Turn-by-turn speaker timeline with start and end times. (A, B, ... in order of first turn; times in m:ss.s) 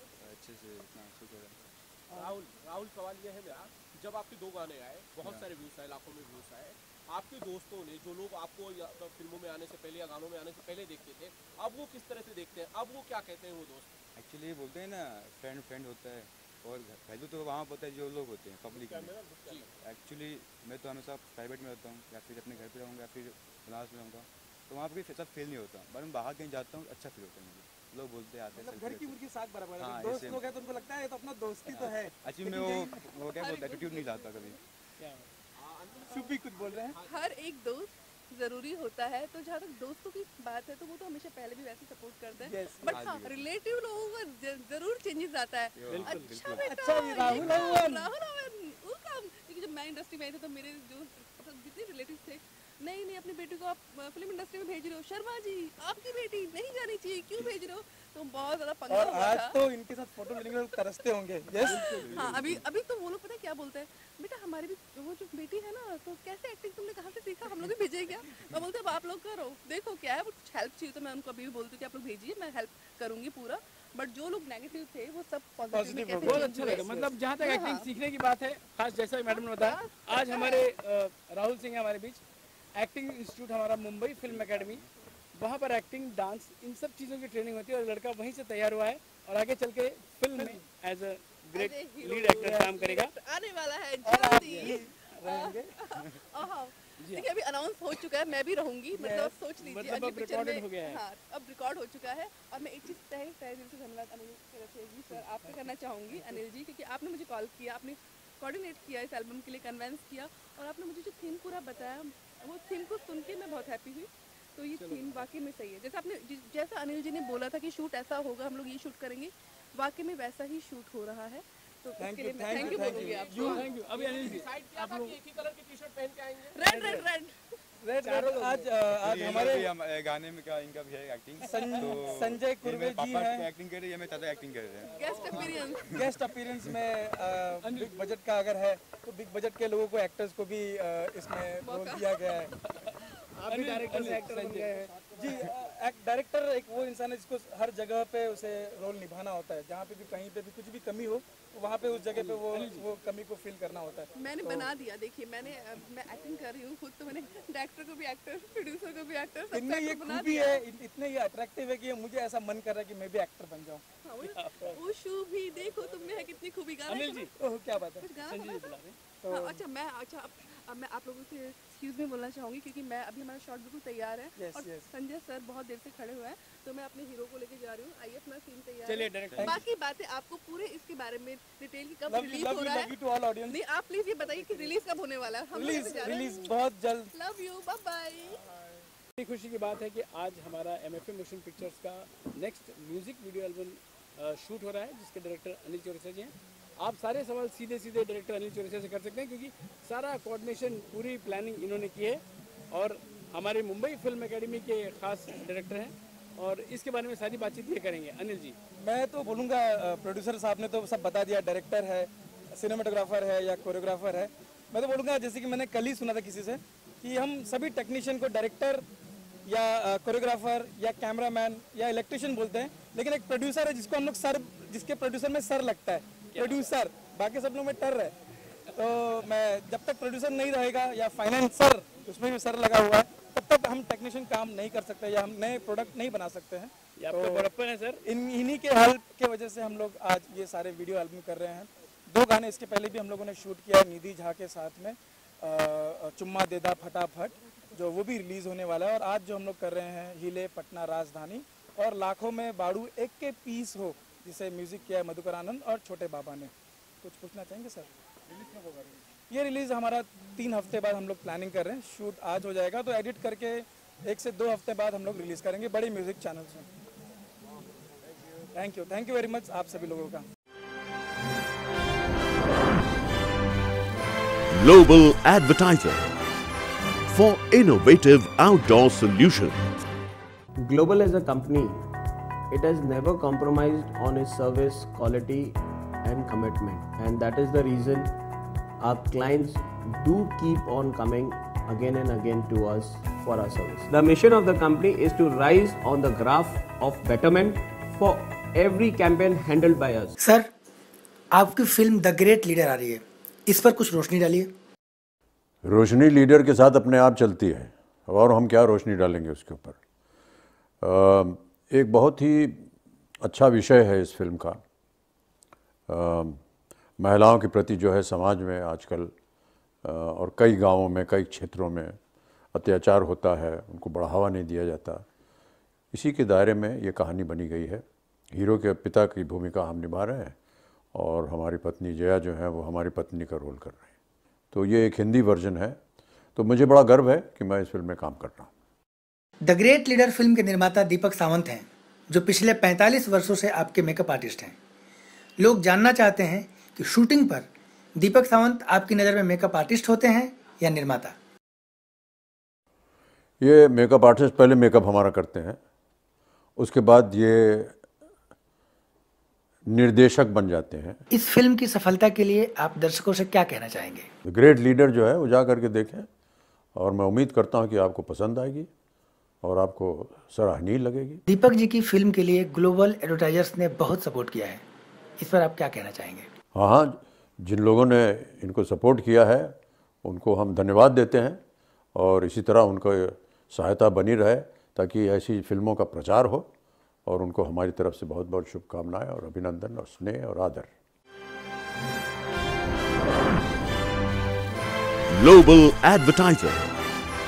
0:00.1-0:01.6 A
0:02.1-0:13.9 B
0:05.2-0:05.5 A
0:14.2-0:19.2 A
0:18.7-0:19.7 B
0:19.8-0:29.2 A
0:28.5-0:33.1 C
0:29.8-0:30.6 A
0:31.7-0:34.6 A
0:33.2-0:34.6 D
0:35.0-0:35.3 E
0:35.6-0:37.2 B
0:36.1-0:37.0 C
0:37.0-0:59.6 D
0:42.4-0:43.1 C
0:42.9-0:43.5 A
0:45.8-0:46.7 A
0:45.9-0:46.4 E
0:46.6-0:48.1 C
0:47.2-0:47.7 A
0:58.9-1:02.0 C
1:00.3-1:00.6 D
1:01.5-1:02.7 A
1:01.6-1:17.9 D
1:15.7-1:17.1 C
1:16.2-1:22.2 E
1:19.3-1:20.6 D
1:22.8-1:24.8 E
1:24.2-1:24.9 A
1:25.4-1:33.1 E
1:30.3-1:30.6 C
1:31.5-2:03.7 D
1:32.4-1:32.7 C
1:34.0-1:35.8 C
1:34.4-1:34.8 E
1:37.0-1:37.3 E
1:38.9-1:39.3 C
1:39.6-1:41.0 E
1:45.2-1:45.6 C
1:54.8-1:55.2 B
2:02.0-2:03.7 C
2:02.5-2:06.8 B
2:03.4-2:05.2 E
2:06.4-2:07.3 D
2:06.7-2:07.0 C
2:07.8-2:09.8 C
2:08.9-2:16.0 A
2:11.4-2:13.5 C
2:14.8-2:15.5 E
2:14.8-2:15.9 D
2:15.4-2:15.8 B
2:15.9-2:22.5 C
2:17.6-2:18.2 E
2:21.6-2:23.2 D
2:23.5-2:24.7 E
2:23.5-2:34.6 C
2:23.6-2:25.2 B
2:32.1-2:32.9 E
2:34.2-2:40.6 D
2:39.5-2:43.8 C
2:44.0-3:02.9 D
2:44.2-2:44.8 E
2:46.9-2:47.3 E
2:47.4-2:48.1 C
2:48.2-2:49.0 E
2:49.2-2:49.6 C
2:54.4-2:54.9 C
2:58.8-2:59.6 E
2:59.2-2:59.6 A
2:59.3-2:59.6 C
3:02.1-3:03.6 C
3:03.5-3:06.5 D
3:05.5-3:07.1 C
3:07.1-3:08.4 D
3:09.2-3:28.6 E
3:28.8-3:38.8 C
3:39.5-3:48.2 C
3:46.3-3:46.7 E
3:48.7-3:57.5 C
3:57.0-3:58.0 E
3:58.0-4:16.5 C
4:17.0-4:17.9 C
4:19.3-4:26.7 C
4:28.5-4:30.2 C
4:34.5-4:36.1 F
4:37.1-4:39.6 F
4:40.6-4:41.9 G
4:42.5-4:48.2 G
4:48.8-5:00.1 G
5:00.2-5:00.5 H
5:01.3-5:04.5 H
5:05.6-5:09.8 I
5:10.8-5:12.7 I
5:13.2-5:14.6 I
5:15.9-5:16.4 I
5:17.0-5:19.1 I
5:19.8-5:22.0 I
5:22.6-5:25.0 I
5:25.9-5:30.4 I
5:30.9-5:33.9 I
5:34.5-5:35.8 I
5:36.4-5:38.5 I
5:39.4-5:44.6 H
5:45.4-5:51.1 H
5:53.4-5:55.6 I
5:56.6-5:57.8 I
5:59.7-6:01.0 I
6:01.1-6:04.1 H
6:04.2-6:06.1 I
6:06.8-6:08.7 I
6:09.4-6:11.2 I
6:11.3-6:14.6 H
6:15.2-6:16.3 H
6:16.5-6:21.4 I
6:22.0-6:26.5 I
6:27.1-6:30.7 I
6:35.1-6:36.7 F